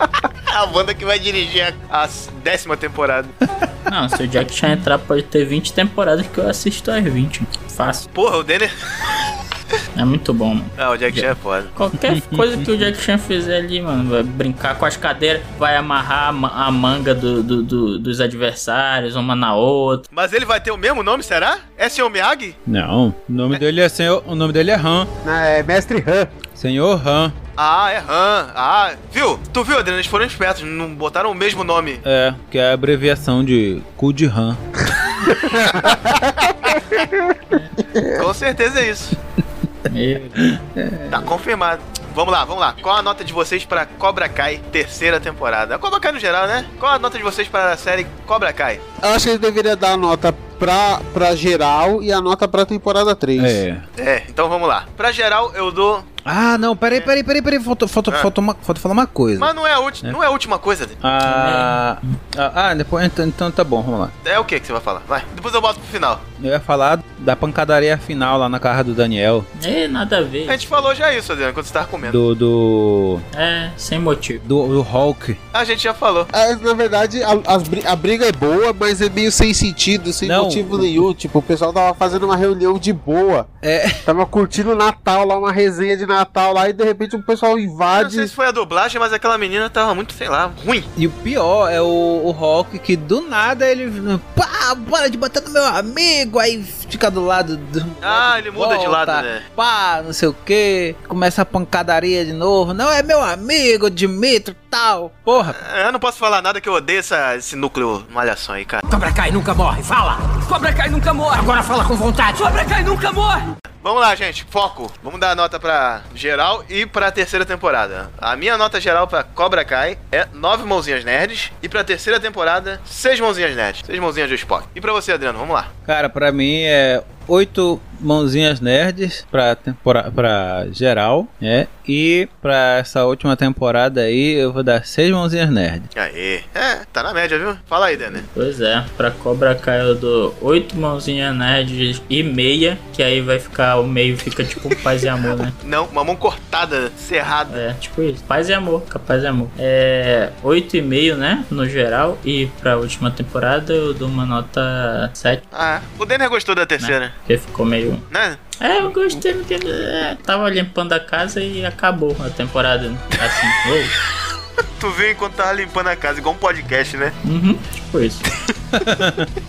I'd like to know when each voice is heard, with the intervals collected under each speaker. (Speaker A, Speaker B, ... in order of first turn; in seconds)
Speaker A: 0.5-3.3, 8.2-9.1, 10.8-11.7, 20.1-22.6, 27.6-32.0, 38.1-39.2, 41.1-48.8, 54.0-56.1, 59.4-61.0, 64.2-66.2, 70.5-72.2, 75.5-76.3, 87.9-90.9, 98.0-99.4, 105.4-108.8, 113.8-125.7, 135.9-138.2, 145.6-147.6, 155.5-157.1, 158.1-158.4, 164.8-167.2
Speaker B: 3.9-8.1, 10.0-20.1, 39.9-40.5, 61.2-62.2, 69.6-70.6, 73.3-74.4, 138.1-145.6, 147.5-155.4, 156.8-158.1, 158.6-164.0, 167.2-168.3
Speaker C: 12.0-12.7, 22.7-25.1, 26.5-27.4, 32.0-34.6, 40.4-41.3, 53.4-53.9, 56.2-59.5, 61.0-64.1, 66.4-69.5, 72.0-73.2, 74.4-75.4, 80.2-81.0, 83.6-84.1, 91.0-105.6, 125.9-135.9, 168.7-169.3
Speaker D: 25.2-26.3, 35.4-37.4, 38.0-38.2, 49.0-53.6, 76.3-83.5, 84.0-88.3
Speaker E: 108.9-113.4